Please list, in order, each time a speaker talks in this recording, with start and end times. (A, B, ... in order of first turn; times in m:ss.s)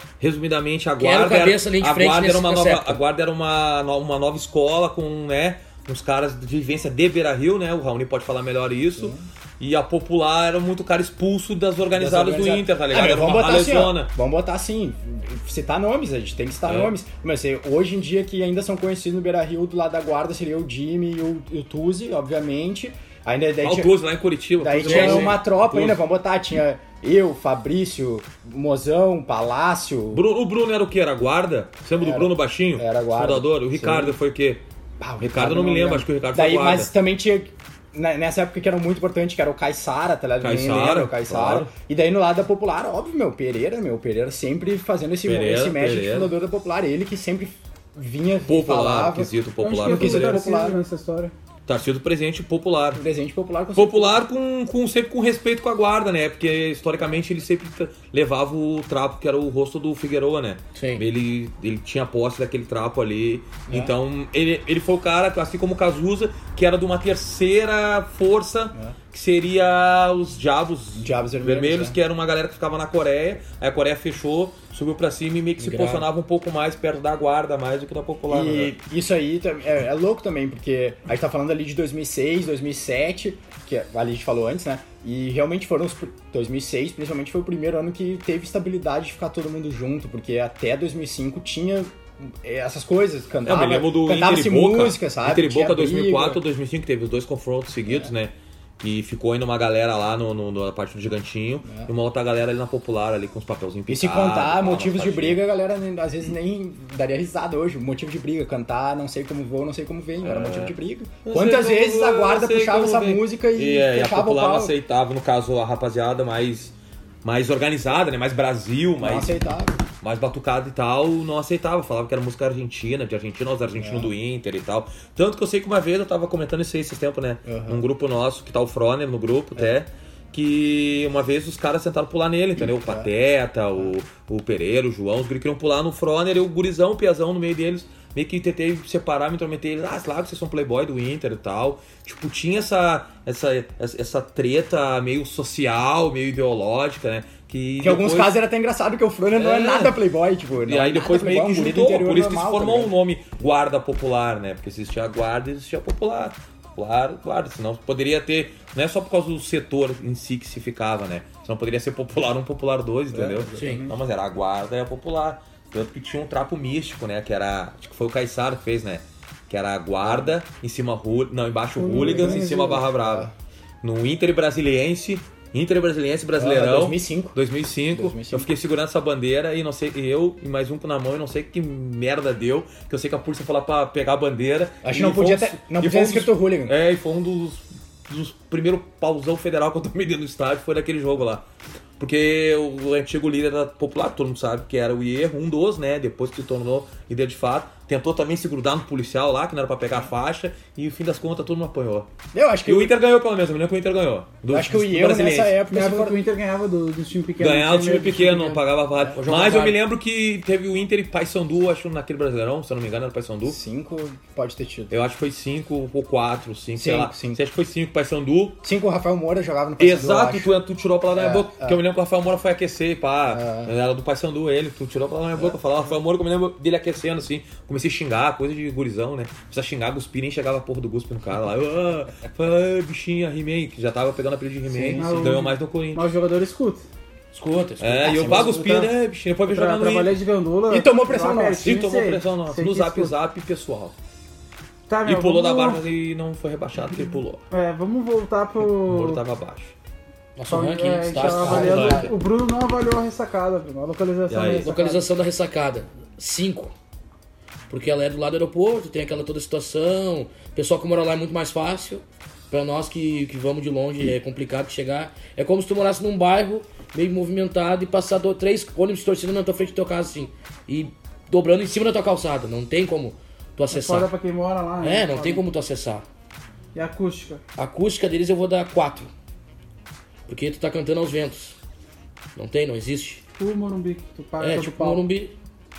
0:00.2-0:14.1 A
0:01.0-0:03.0 B
0:09.0-0:09.2 C
0:11.9-0:24.0 C
0:16.6-0:17.0 A
0:23.6-0:26.0 A
0:24.6-0:30.2 C
0:24.8-0:25.4 B
0:30.1-0:34.6 A
0:32.0-0:34.2 C
0:35.0-0:50.8 C
0:35.2-0:36.9 A
0:40.4-0:41.7 A
0:45.2-0:46.3 A
0:48.4-0:50.4 A
0:49.6-0:51.3 D
0:51.6-0:53.0 A
0:52.9-0:54.2 C
0:53.7-1:18.7 A
1:00.7-1:01.0 B
1:03.7-1:03.9 C
1:11.0-1:12.0 C
1:15.6-1:16.1 B
1:18.3-1:36.4 C
1:33.4-1:45.4 A
1:41.6-1:41.9 C
1:43.9-1:54.7 C
1:50.2-1:50.7 A
1:51.2-2:28.4 A
1:59.0-1:59.8 C
2:03.8-2:04.1 C
2:07.4-2:07.8 C
2:12.6-2:13.1 C
2:27.8-2:32.9 C
2:29.3-2:30.0 A
2:30.6-2:53.3 A
2:43.1-2:44.0 C
2:43.6-2:43.8 B
2:50.0-2:50.3 C
2:51.8-2:52.9 D
2:51.9-2:53.3 C
2:53.8-3:11.4 A
2:56.3-2:57.4 C
2:57.9-2:58.5 C
3:04.8-3:06.8 C
3:12.0-3:22.1 A
3:22.3-3:23.0 C
3:22.6-3:25.6 A
3:24.5-3:26.2 C
3:25.7-3:28.6 D
3:27.4-3:33.6 A
3:29.1-3:29.8 B
3:33.4-3:34.9 C
3:34.9-3:38.6 A
3:36.7-3:37.4 C
3:38.6-3:40.5 C
3:39.8-3:56.1 A
3:41.1-3:41.8 C
3:43.3-3:43.7 C
3:54.7-3:55.3 C
3:55.0-3:56.9 D
3:57.3-3:58.5 B
3:57.8-4:00.2 A
3:58.0-3:58.8 C
3:58.2-3:58.9 D
3:59.4-4:03.1 D
4:00.7-4:01.8 C
4:01.6-4:04.0 A
4:04.9-4:05.8 D
4:05.0-4:07.4 A
4:07.5-4:09.2 D
4:08.6-4:09.7 A
4:10.4-4:12.0 B
4:10.5-4:15.0 D
4:11.1-4:12.1 C
4:11.4-4:12.1 A
4:14.3-4:14.7 A
4:14.6-4:16.7 B
4:17.7-4:34.1 B
4:33.7-4:35.4 D
4:34.8-4:36.0 B
4:36.7-4:37.4 D
4:37.6-4:39.1 B
4:40.3-4:41.6 B
4:42.4-4:43.2 B
4:43.4-4:45.0 D
4:44.4-4:45.3 B